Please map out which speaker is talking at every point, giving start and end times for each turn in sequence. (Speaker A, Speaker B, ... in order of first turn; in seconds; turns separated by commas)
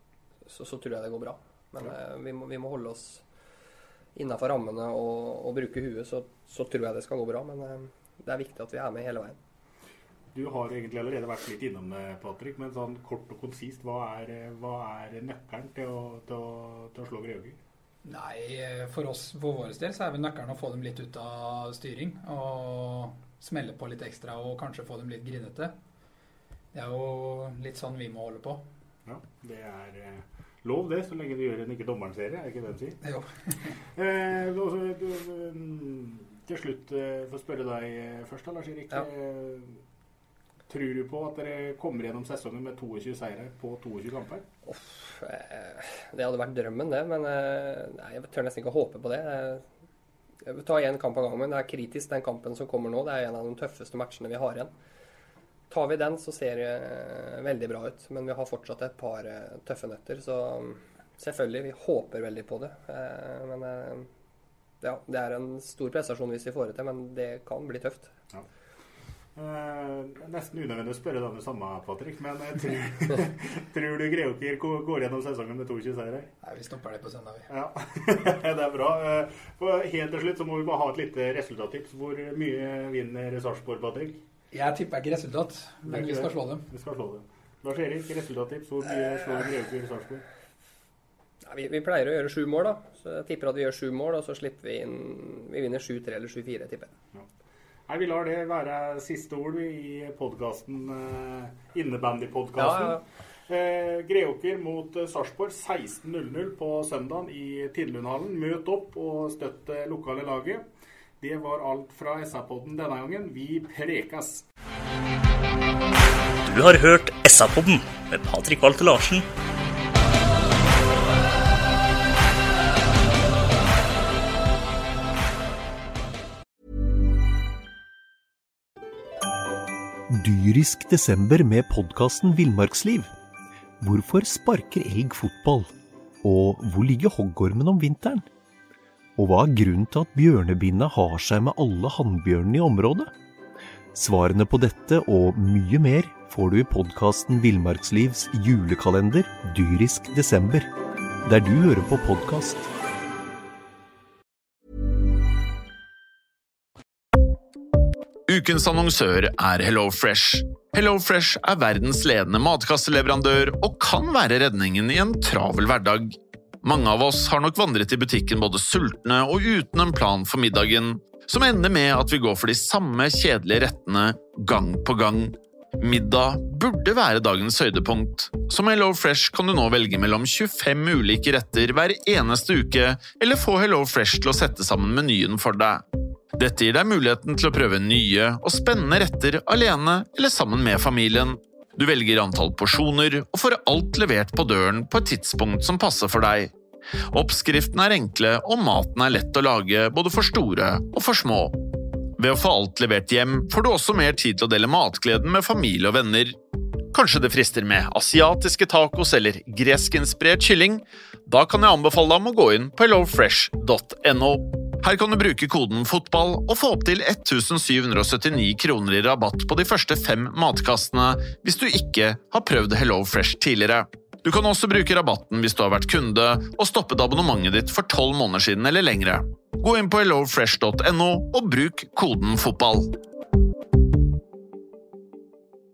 Speaker A: 0.5-3.2, Speaker A: 4.2-9.3, Speaker B: 10.3-17.6, Speaker C: 18.0-25.7, Speaker C: 26.7-28.6, Speaker B: 29.1-33.0, Speaker C: 33.0-33.7, Speaker B: 34.0-39.8, Speaker B: 40.7-44.4, Speaker A: 44.6-49.6, Speaker A: 50.5-54.7, Speaker A: 55.7-64.0, Speaker A: 64.8-68.1, Speaker B: 69.3-76.3, Speaker C: 76.4-77.5, Speaker B: 77.5-84.2, Speaker C: 84.5-86.7, Speaker B: 85.8-90.2, Speaker A: 91.5-96.9, Speaker B: 97.9-110.6, Speaker A: 102.5-103.0, Speaker B: 111.2-114.5, Speaker D: 116.5-119.2, Speaker E: 130.1-133.1, Speaker E: 133.8-135.7, Speaker E: 136.2-138.2, Speaker E: 139.2-143.1, Speaker E: 143.9-150.7, Speaker E: 151.2-152.7, Speaker F: 158.3-185.8, Speaker F: 186.4-196.5, Speaker F: 197.1-201.5, Speaker F: 202.2-206.3, Speaker F: 206.9-232.9